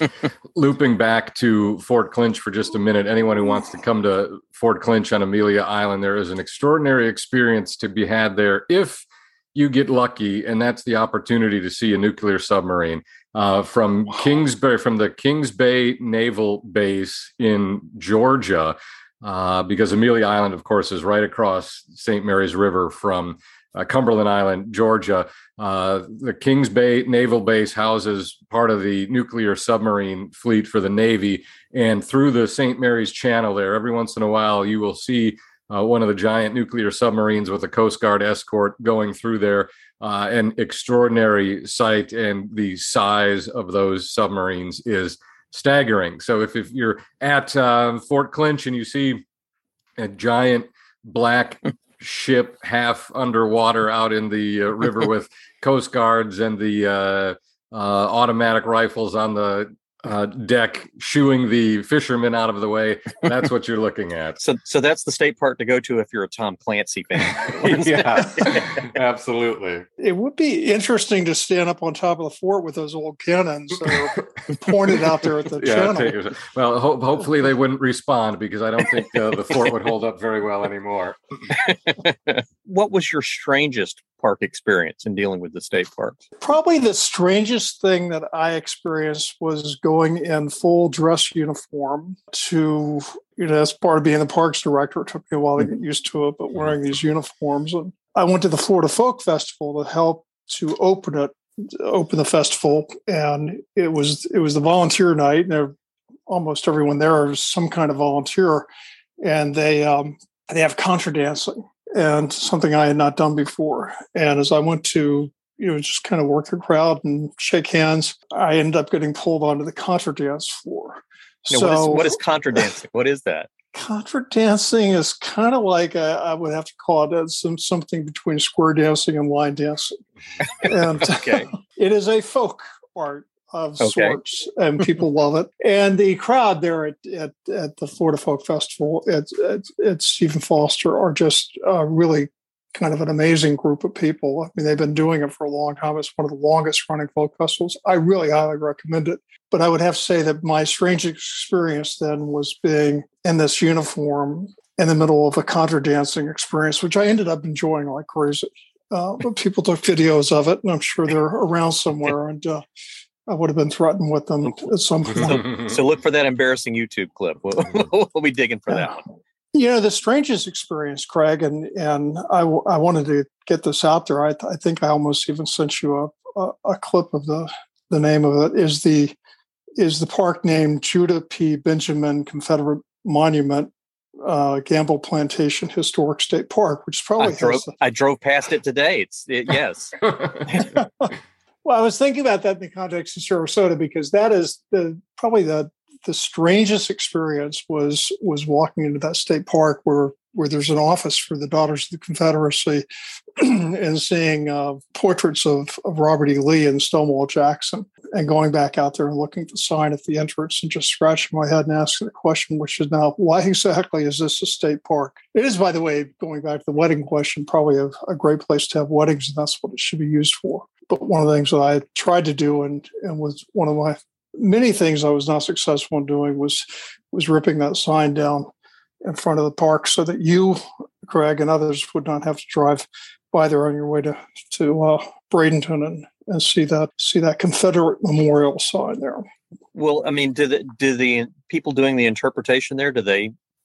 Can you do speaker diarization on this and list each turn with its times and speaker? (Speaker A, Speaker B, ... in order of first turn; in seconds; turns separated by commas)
Speaker A: 0.5-49.2, Speaker A: 50.0-64.4, Speaker B: 64.4-68.8, Speaker A: 67.6-69.8, Speaker C: 70.0-76.2, Speaker A: 75.6-81.2, Speaker B: 81.5-86.2, Speaker C: 86.4-105.7, Speaker C: 106.3-108.7, Speaker C: 109.2-122.2, Speaker B: 121.5-123.5, Speaker C: 123.7-130.0, Speaker B: 130.4-131.5, Speaker C: 130.6-162.6, Speaker B: 133.8-134.2, Speaker C: 163.3-165.4, Speaker B: 165.1-169.0, Speaker C: 169.5-179.2, Speaker C: 179.8-187.7, Speaker B: 187.2-190.7, Speaker C: 191.6-202.8, Speaker C: 203.3-228.5, Speaker C: 229.0-239.2, Speaker B: 239.7-243.3